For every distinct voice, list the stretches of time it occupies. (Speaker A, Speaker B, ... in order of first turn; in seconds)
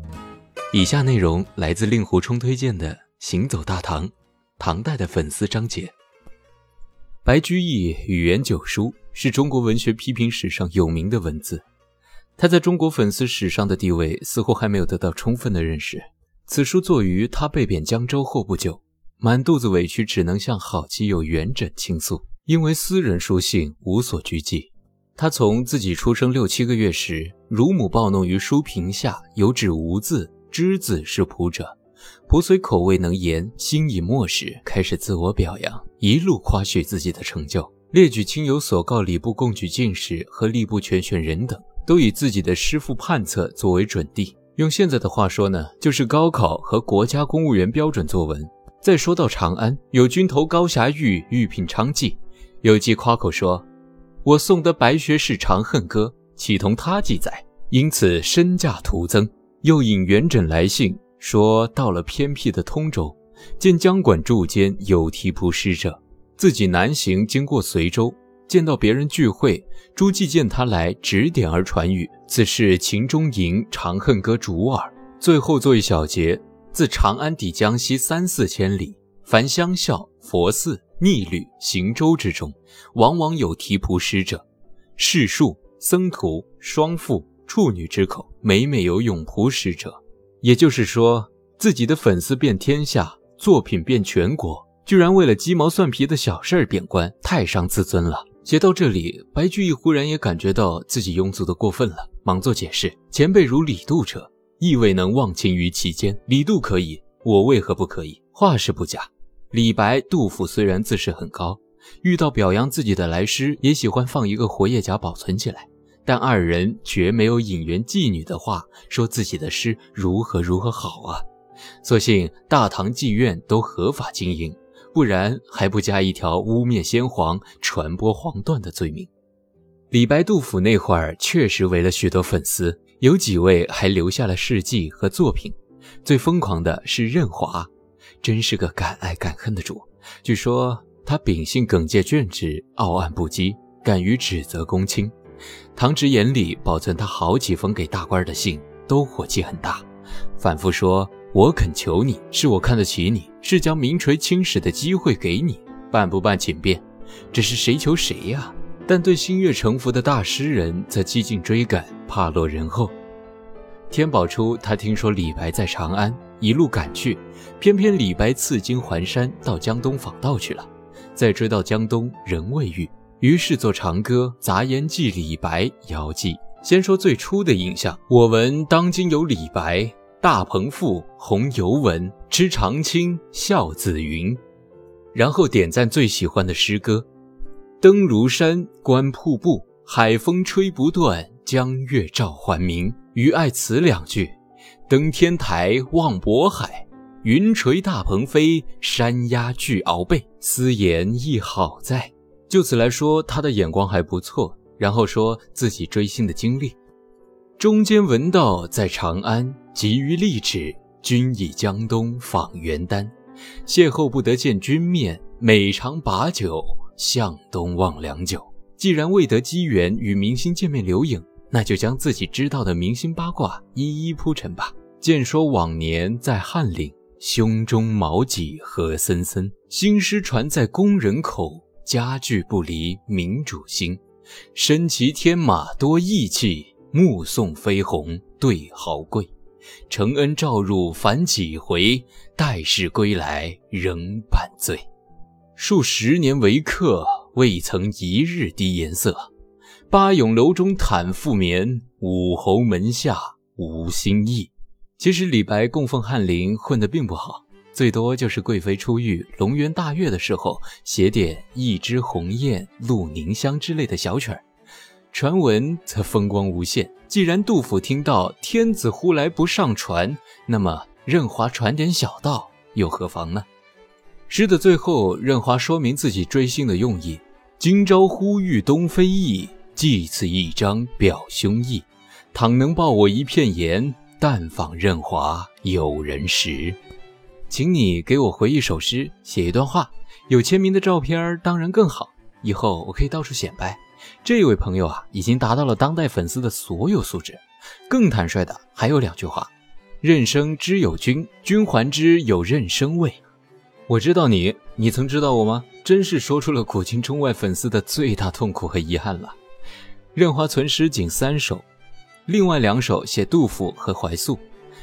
Speaker A: 0.7-5.9, 7.2-11.6, 12.4-31.8, 32.3-53.7, 54.2-84.5, 85.0-121.2, 121.8-129.1, 129.9-137.7, 138.2-145.2, 145.8-149.9, 150.4-162.9, 163.9-184.4, 185.1-187.1, 187.8-194.4, 194.9-206.8, 207.6-213.1, 213.7-234.0, 234.5-239.3, 239.9-244.8, 245.6-249.3, 249.9-264.4, 265.1-273.5, 274.3-286.8, 287.5-303.2, 303.9-309.4, 310.1-311.6, 312.3-314.4